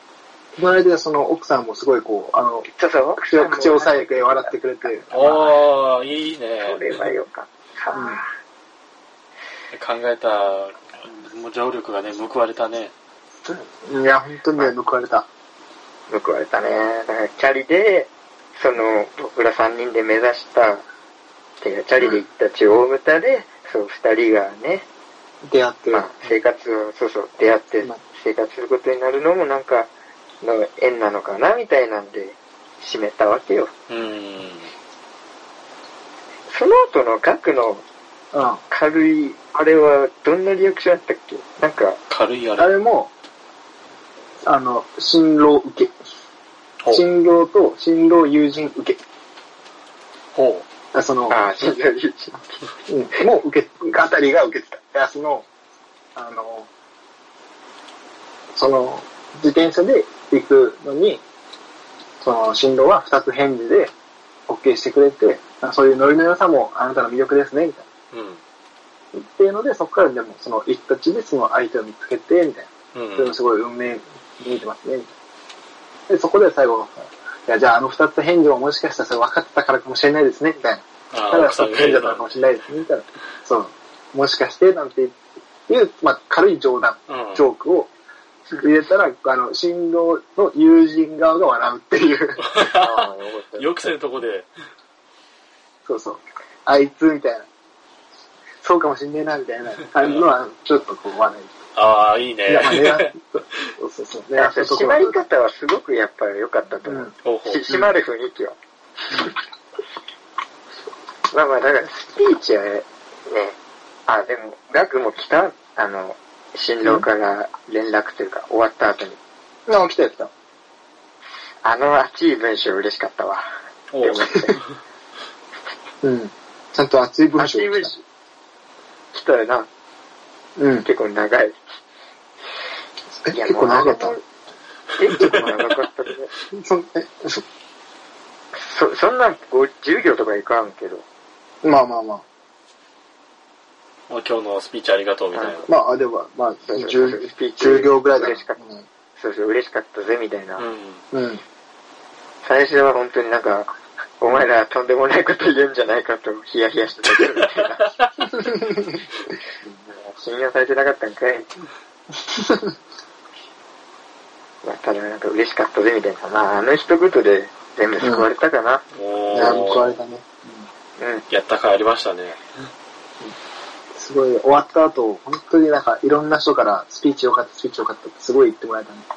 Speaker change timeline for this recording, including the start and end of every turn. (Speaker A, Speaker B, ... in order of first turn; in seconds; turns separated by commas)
Speaker A: 0.6-5.6, Speaker B: 2.7-5.4, Speaker C: 5.1-6.8, Speaker B: 6.6-8.3, Speaker A: 7.9-8.2, Speaker C: 9.7-12.9, Speaker A: 13.4-15.3, Speaker B: 16.1-20.9, Speaker B: 21.6-24.9, Speaker A: 25.4-26.4, Speaker B: 25.9-29.9, Speaker B: 30.4-33.7, Speaker C: 33.9-34.7, Speaker B: 36.5-37.9, Speaker A: 38.3-38.6, Speaker B: 38.7-42.0, Speaker C: 42.1-42.7, Speaker A: 42.6-43.1, Speaker A: 44.5-46.0, Speaker A: 46.9-49.0, Speaker C: 50.3-50.6, Speaker A: 50.9-51.4, Speaker B: 51.3-52.6, Speaker A: 52.9-55.5, Speaker A: 56.1-56.7, Speaker A: 58.5-61.2, Speaker A: 62.2-63.9, Speaker A: 64.5-67.9, Speaker C: 68.1-68.4, Speaker A: 69.1-75.1, Speaker C: 72.9-73.4, Speaker A: 76.1-85.2, Speaker C: 81.1-82.3, Speaker A: 85.7-87.9, Speaker C: 87.1-87.4, Speaker A: 88.6-92.5, Speaker C: 92.4-94.5, Speaker B: 92.6-93.9, Speaker A: 95.9-97.5, Speaker A: 98.6-101.5, Speaker C: 100.0-100.3, Speaker C: 101.8-103.1, Speaker A: 102.5-105.2, Speaker B: 104.4-108.6, Speaker A: 106.8-107.1, Speaker C: 107.2-107.8, Speaker B: 111.3-113.6, Speaker B: 114.1-119.2, Speaker A: 119.7-120.3, Speaker B: 121.6-123.5, Speaker C: 123.9-124.8, Speaker B: 124.0-124.6, Speaker A: 126.0-128.0, Speaker B: 127.4-128.0, Speaker B: 129.1-129.7, Speaker A: 130.6-130.9, Speaker B: 130.8-131.7, Speaker A: 133.2-134.2, Speaker B: 133.3-134.2, Speaker B: 135.0-136.3, Speaker A: 136.5-137.4, Speaker B: 138.6-141.1, Speaker A: 141.6-142.2, Speaker C: 144.1-145.7, Speaker B: 145.3-145.7, Speaker A: 145.7-148.9, Speaker B: 146.7-148.6, Speaker B: 149.2-150.7, Speaker C: 150.6-151.0, Speaker A: 151.1-151.4, Speaker B: 152.4-157.9, Speaker A: 158.3-158.9, Speaker B: 159.6-161.5, Speaker A: 162.3-162.7, Speaker B: 164.6-168.8, Speaker A: 168.0-168.3, Speaker C: 168.9-169.9, Speaker A: 169.3-170.7, Speaker B: 169.3-169.8, Speaker B: 171.0-171.2, Speaker C: 171.3-172.4, Speaker A: 173.9-179.1